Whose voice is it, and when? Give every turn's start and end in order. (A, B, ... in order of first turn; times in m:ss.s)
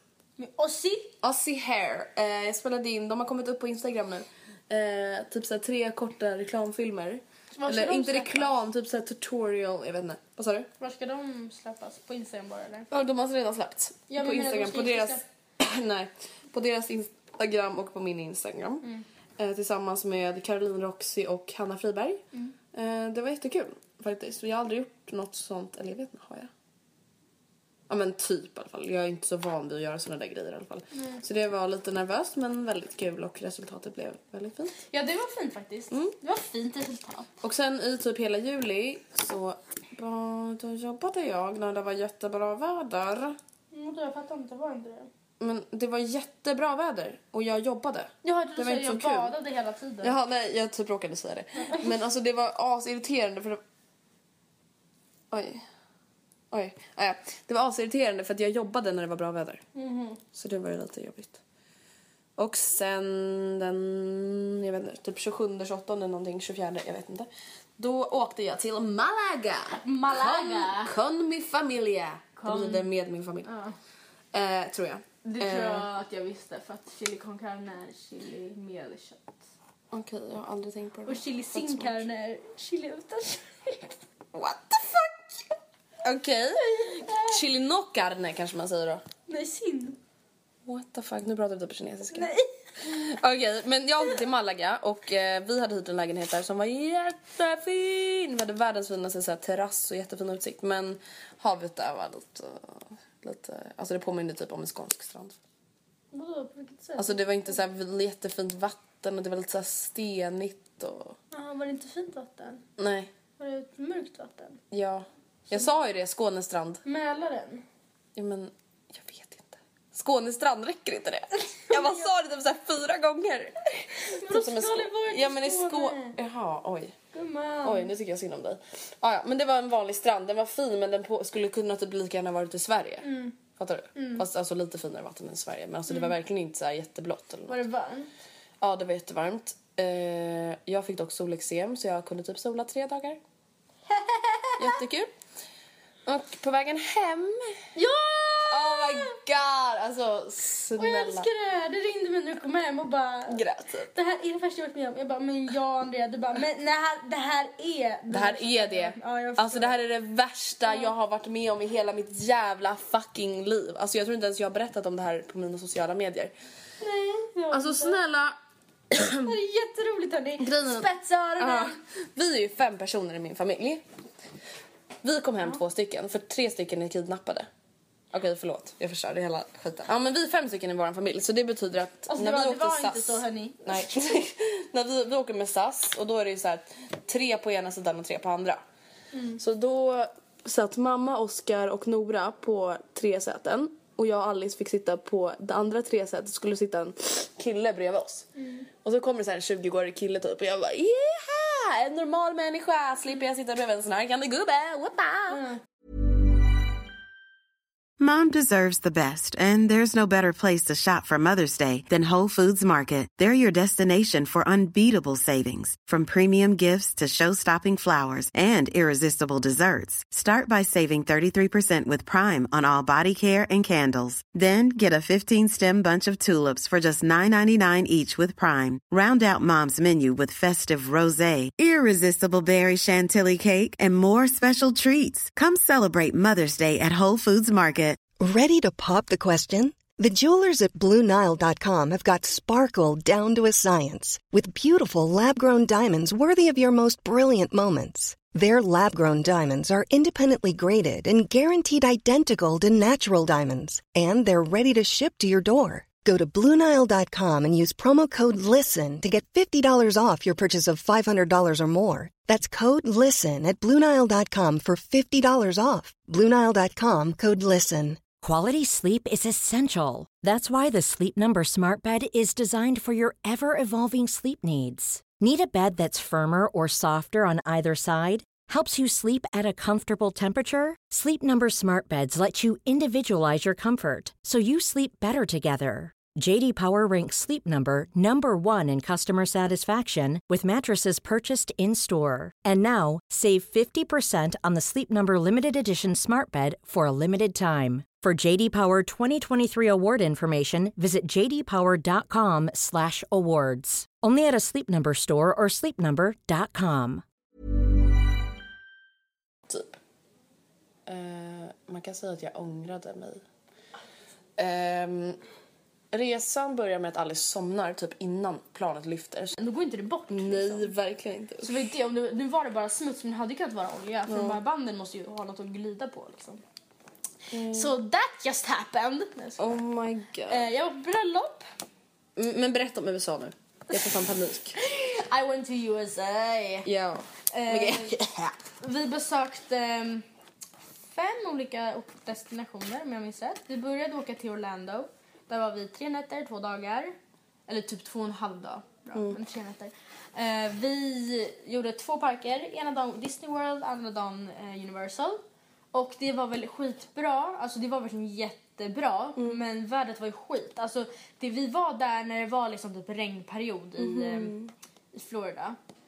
0:00.4-0:01.1 A
0:01.2-0:10.7 B
0:07.5-0:08.5 A
0:10.8-0:12.9 A
0:12.9-0:18.8 B
0:14.1-0:15.2 A
0:19.4-0:26.5 B
0:27.9-0:34.8 B
0:30.9-0:31.2 A
0:34.9-0:37.3 A
0:37.4-0:43.4 B
0:43.7-0:45.1 A
0:45.4-0:49.3 B
0:48.2-0:50.1 A
0:50.0-0:53.6 B
0:51.6-0:51.9 A
0:55.3-0:55.6 B
0:56.5-0:59.6 B
0:59.7-1:00.2 A
1:00.3-1:01.4 B
1:02.4-1:13.5 B
1:09.8-1:10.9 A
1:12.4-1:12.9 A
1:13.4-1:13.7 A
1:14.3-1:15.9 B
1:15.2-1:19.4 A
1:19.9-1:22.0 B
1:21.0-1:24.0 A
1:24.3-1:25.1 B
1:26.0-1:29.0 B
1:26.6-1:27.4 A
1:29.3-1:30.0 A
1:30.6-1:45.4 B
1:32.1-1:32.5 A
1:46.1-1:47.6 A
1:47.0-1:51.2 B
1:51.3-1:52.6 A
1:52.8-1:53.1 B
1:53.4-1:54.6 A
1:54.7-1:56.8 B
1:56.8-1:57.6 A
1:58.2-2:07.0 B
2:01.7-2:02.1 A
2:04.1-2:06.2 A
2:07.1-2:07.9 A
2:07.6-2:17.6 B
2:13.0-2:13.4 A
2:13.9-2:14.2 A
2:17.5-2:18.1 A
2:18.6-2:23.2 B
2:23.9-2:24.8 A
2:24.6-2:25.1 B
2:26.0-2:27.6 B
2:27.7-2:29.1 A
2:28.5-2:31.3 B
2:30.8-2:33.4 A
2:33.3-2:33.9 B
2:33.9-2:39.8 A
2:38.1-2:46.3 B
2:46.8-2:48.0 A
2:47.5-2:48.4 B
2:48.9-2:49.3 B
2:49.2-2:51.8 A
2:50.4-2:53.8 B
2:55.0-2:57.5 B
2:58.1-3:08.6 B
3:02.1-3:04.2 A
3:09.1-3:09.4 A
3:09.4-3:18.3 B
3:18.4-3:18.7 A
3:18.8-3:25.4 B
3:25.3-3:25.6 A
3:28.0-3:58.0 C
3:58.2-4:28.0 D
4:28.2-5:07.0 E
5:09.5-5:09.8 B
5:10.8-5:13.2 B
5:14.4-5:15.2 B
5:15.9-5:19.4 B
5:19.4-5:20.7 A
5:20.1-5:21.6 B
5:21.4-5:26.4 A
5:24.1-5:24.4 B
5:27.3-5:27.7 B
5:27.5-5:29.6 A
5:29.4-5:30.4 B
5:30.3-5:31.4 A
5:32.2-5:34.6 B
5:33.7-5:36.7 A
5:36.6-5:38.4 B
5:37.3-5:37.9 A
5:38.6-5:40.0 A
5:40.9-5:46.9 A
5:47.5-5:55.2 A
5:55.7-6:04.4 A
6:03.8-6:04.5 B
6:04.9-6:05.6 A